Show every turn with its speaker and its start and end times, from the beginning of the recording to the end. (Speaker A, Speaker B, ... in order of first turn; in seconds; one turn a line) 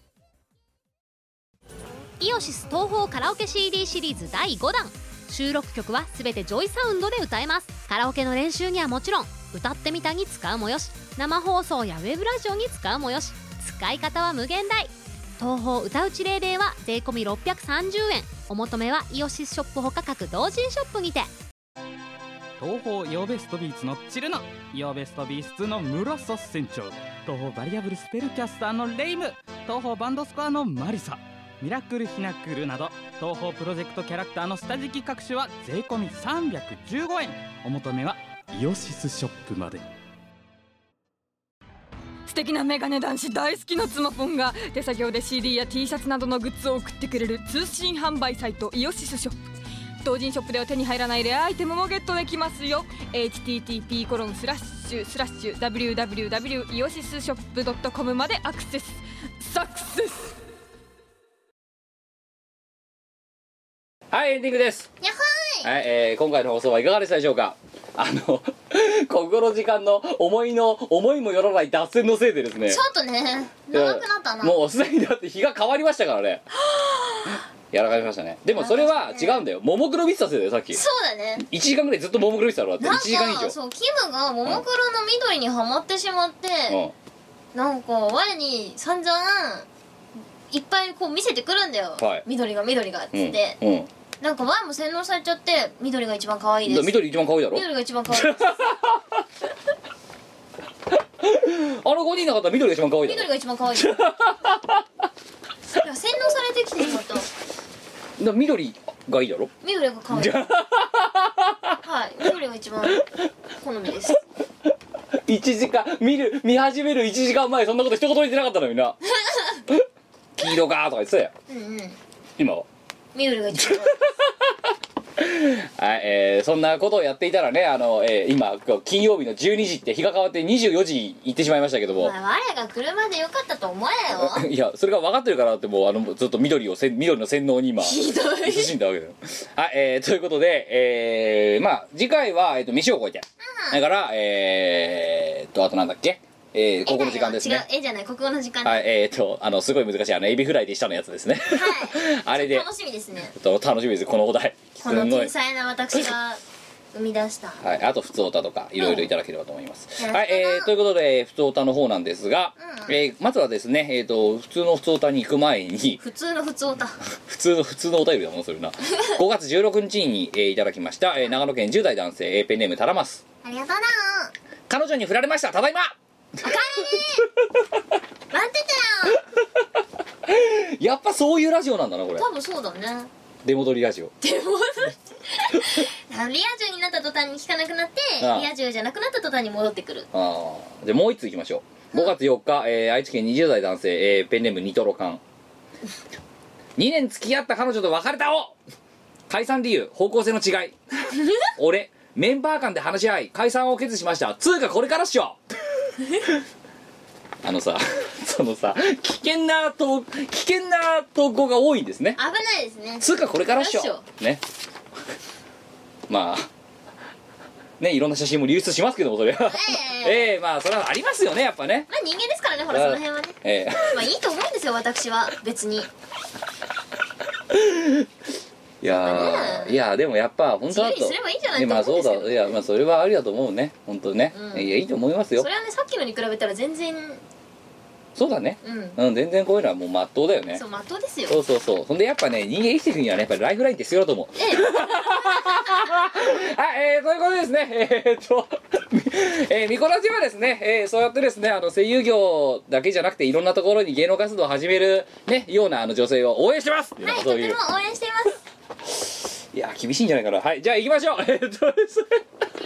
Speaker A: 2.2-21.3
Speaker B: 22.6-39.9
Speaker C: 42.3-49.4
Speaker C: 50.0-60.4
Speaker D: 64.1-64.9
Speaker E: 65.0-65.7
Speaker D: 65.6-72.8
Speaker E: 72.7-74.6
Speaker D: 73.7-76.4
Speaker E: 76.5-77.4
Speaker D: 77.7-80.8
Speaker E: 78.5-79.4
Speaker E: 80.7-81.5
Speaker D: 81.4-83.6
Speaker E: 82.8-86.8
Speaker D: 86.7-86.9
Speaker E: 87.5-89.7
Speaker E: 90.5-93.6
Speaker D: 92.0-92.2
Speaker D: 93.1-93.9
Speaker E: 94.2-98.7
Speaker D: 96.7-99.2
Speaker D: 101.2-104.8
Speaker E: 103.0-104.1
Speaker E: 105.7-107.3
Speaker D: 108.2-109.5
Speaker E: 109.6-110.4
Speaker D: 110.1-111.8
Speaker E: 111.8-114.2
Speaker D: 115.3-119.0
Speaker E: 119.2-119.6
Speaker D: 120.4-121.3
Speaker E: 121.5-122.0
Speaker D: 122.4-122.7
Speaker E: 123.1-124.0
Speaker D: 123.7-124.5
Speaker D: 125.2-132.1
Speaker E: 132.0-134.5
Speaker D: 134.2-147.6
Speaker E: 137.8-138.7
Speaker E: 143.4-143.8
Speaker E: 146.8-148.8
Speaker D: 148.6-152.7
Speaker E: 151.4-153.3
Speaker D: 153.3-155.3
Speaker E: 154.8-156.4
Speaker E: 156.9-157.6
Speaker D: 157.6-166.0
Speaker E: 158.8-159.1
Speaker E: 160.0-160.7
Speaker E: 162.6-163.0
Speaker E: 166.0-167.0
Speaker D: 167.2-173.2
Speaker E: 173.4-174.3
Speaker D: 174.7-175.9
Speaker E: 176.4-177.3
Speaker D: 176.5-177.1
Speaker E: 178.3-179.2
Speaker D: 180.3-182.2
Speaker E: 182.2-183.1
Speaker D: 183.4-184.1
Speaker E: 184.2-190.1
Speaker D: 188.2-188.5
Speaker D: 190.1-195.2
Speaker D: 196.8-198.6
Speaker D: 199.3-205.4
Speaker D: 207.4-212.2
Speaker E: 212.2-214.1
Speaker D: 213.0-214.4
Speaker D: 216.1-216.5
Speaker D: 217.8-221.9
Speaker E: 219.4-220.3
Speaker E: 221.9-225.9
Speaker D: 222.7-224.0
Speaker D: 227.5-228.1
Speaker D: 228.8-235.5
Speaker E: 228.9-229.8
Speaker E: 230.7-232.6
Speaker E: 234.3-234.7
Speaker E: 235.3-237.2
Speaker D: 238.2-240.6
Speaker E: 238.6-239.0
Speaker E: 240.5-241.4
Speaker D: 241.3-257.6
Speaker E: 244.3-246.0
Speaker E: 257.0-258.4
Speaker D: 259.5-262.2